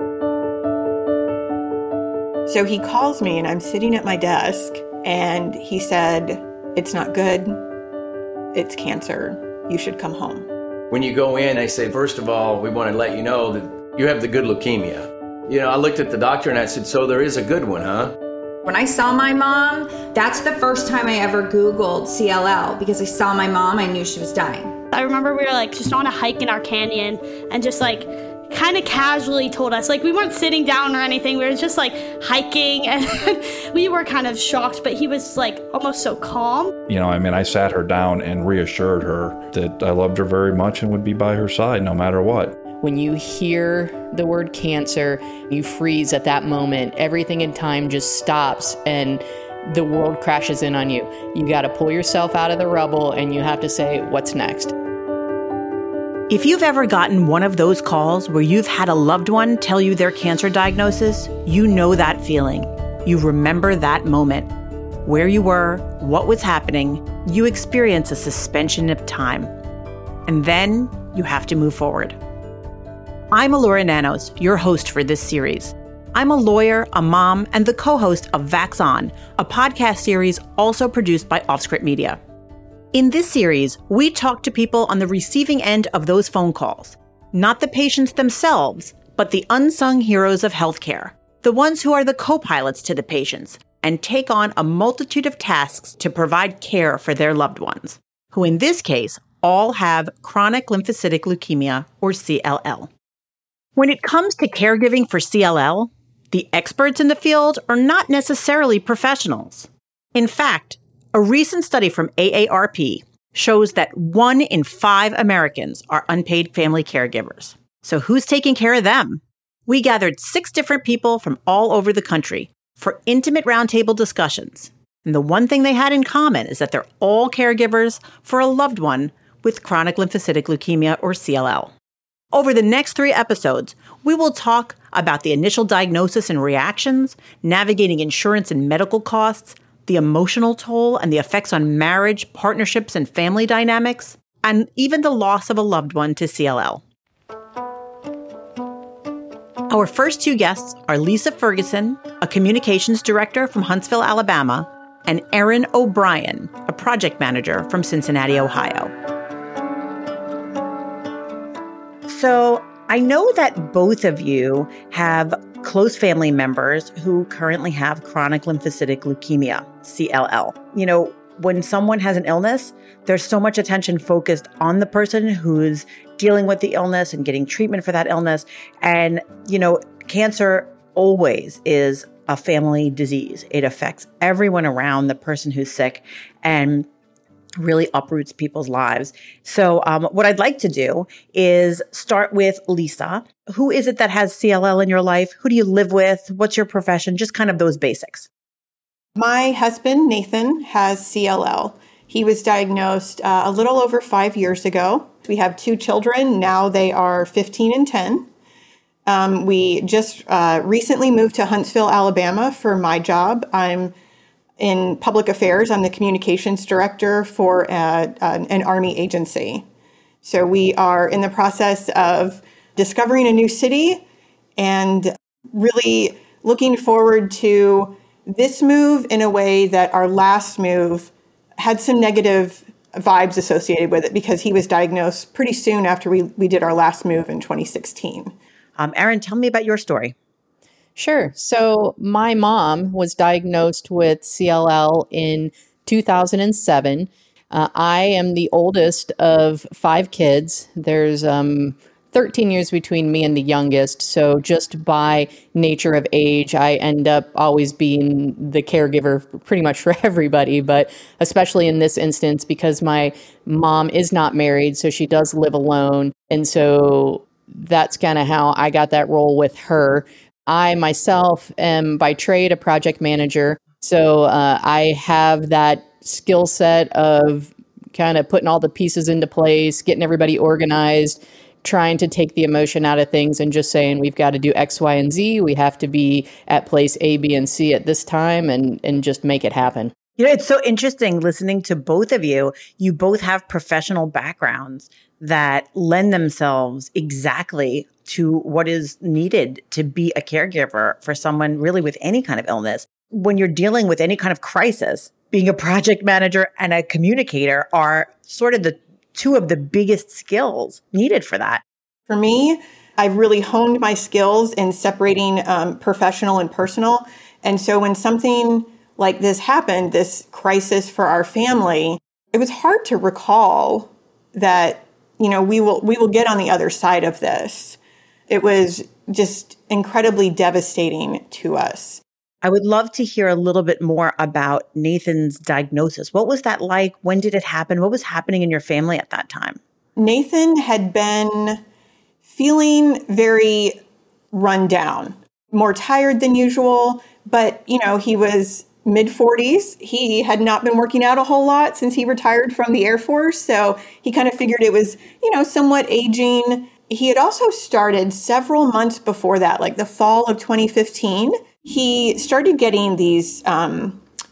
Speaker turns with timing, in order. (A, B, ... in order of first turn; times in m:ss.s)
0:02.5-0:07.6 A
0:08.5-0:10.5 A
0:10.9-0:18.1 B
0:18.6-0:24.7 C
0:24.9-0:36.7 D
0:36.9-0:42.6 E
0:42.8-0:54.7 F
0:56.3-1:04.5 G
1:05.0-1:09.5 G
1:10.2-1:12.2 G
1:13.3-1:22.2 G
1:22.9-1:42.9 G
1:43.8-2:11.7 G
2:12.3-2:26.8 G
2:29.7-2:38.9 G
2:42.1-3:06.9 G
3:07.6-3:18.3 G
3:19.2-3:28.3 A
3:29.0-3:33.9 A
3:34.6-3:39.6 A
3:40.2-3:44.0 A
3:44.6-3:58.3 A
3:58.8-4:00.1 G
4:01.0-4:49.9 F
4:50.2-5:11.6 G
5:12.1-5:32.0 A
5:32.4-5:39.6 G
5:40.0-5:41.6 A
5:42.3-5:43.8 A
5:44.3-6:04.0 A